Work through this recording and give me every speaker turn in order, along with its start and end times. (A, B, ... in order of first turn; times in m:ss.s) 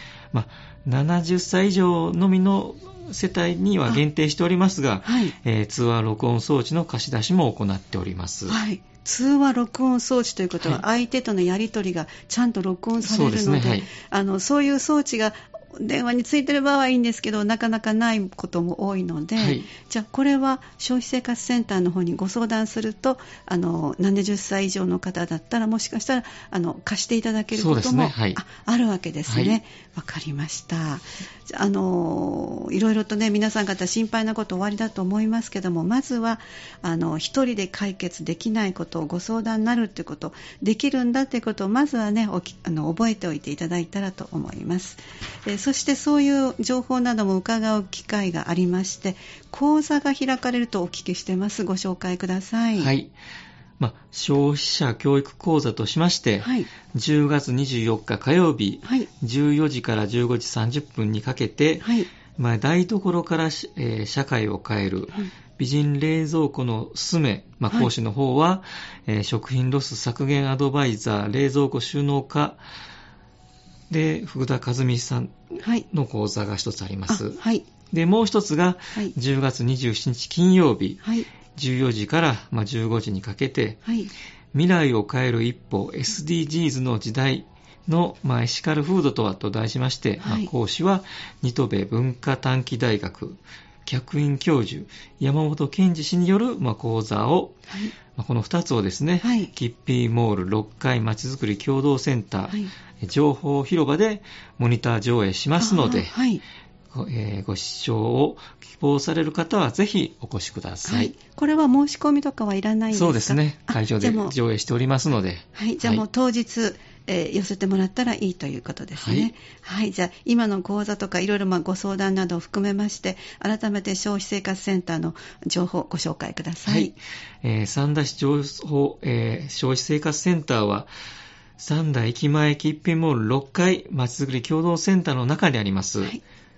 0:00.3-0:08.6 A
0:05.0-0:05.3 B
0:08.5-0:52.9 B
0:13.0-0:13.9 A
0:19.4-0:19.7 A
0:27.5-0:28.4 A
0:29.3-0:29.6 A
0:52.8-0:53.1 A
0:53.8-1:12.6 A
0:56.4-0:56.7 B
0:58.8-0:59.1 B
1:01.8-1:02.1 B
1:13.9-1:15.3 A
1:15.6-1:15.9 B
1:15.9-1:17.4 A
1:17.1-1:17.7 B
1:17.9-1:21.0 A
1:21.0-1:21.3 B
1:21.6-1:23.8 A
1:23.8-1:24.1 B
1:24.5-1:37.6 A
1:30.2-1:30.5 B
1:37.7-1:37.9 B
1:38.2-1:46.1 A
1:39.2-1:39.5 B
1:45.6-1:46.4 B
1:46.9-1:51.1 A
1:50.8-1:54.4 B
1:52.9-1:56.0 A
1:55.6-2:06.9 B
1:59.0-1:59.3 A
2:06.6-2:10.9 A
2:11.6-2:16.1 A